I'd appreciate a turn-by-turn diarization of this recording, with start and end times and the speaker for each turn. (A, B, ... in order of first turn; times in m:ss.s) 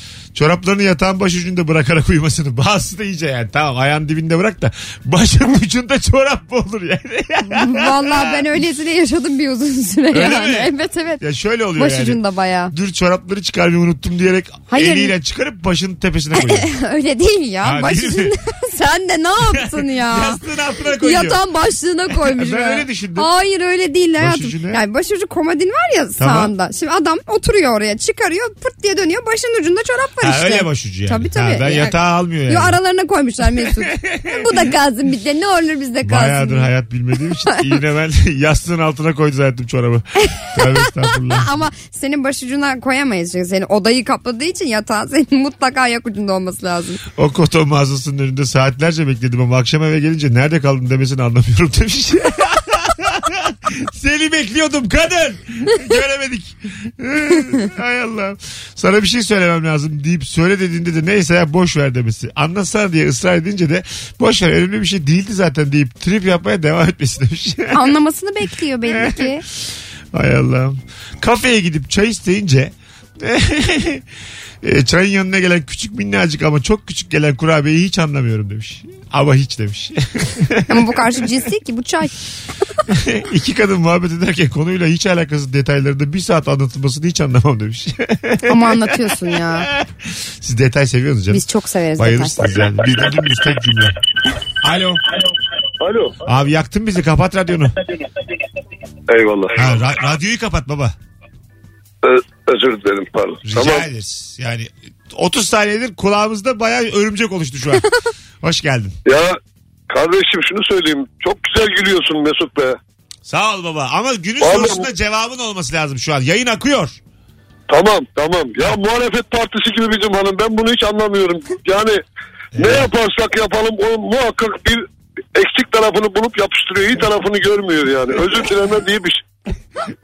0:00.3-0:08.4 A
0:07.5-0:11.2 B
0:10.1-0:12.2 A
0:11.8-0:12.7 B
0:12.7-0:16.7 A
0:14.7-0:15.1 B
0:16.4-0:20.4 B
0:17.6-0:18.3 A
0:19.6-0:21.4 A
0:21.0-0:31.9 B
0:22.1-0:23.3 A
0:24.2-0:24.8 A
0:26.2-0:26.5 A
0:30.2-0:32.8 A
0:32.5-0:36.7 B
0:33.7-0:34.4 A
0:36.0-0:41.5 A
0:40.3-0:47.0 B
0:47.2-1:07.9 A
1:07.7-1:09.4 B
1:08.9-1:09.4 A
1:10.1-1:14.0 A
1:14.6-1:20.9 A
1:20.7-1:22.1 B
1:22.9-1:31.4 A
1:28.5-1:29.7 B
1:31.3-1:32.5 B
1:32.0-1:34.0 A
1:34.6-1:35.0 A
1:35.8-1:36.2 C
1:36.2-1:37.8 A
1:39.1-1:39.9 C
1:39.6-1:40.9 A
1:42.0-1:43.8 C
1:43.4-1:47.9 A
1:48.4-1:49.0 A
1:49.0-1:49.4 C
1:49.9-1:52.8 C
1:53.2-1:57.0 A
1:54.4-1:54.9 C
1:57.7-2:02.0 C
2:02.5-2:02.9 A
2:02.6-2:09.2 C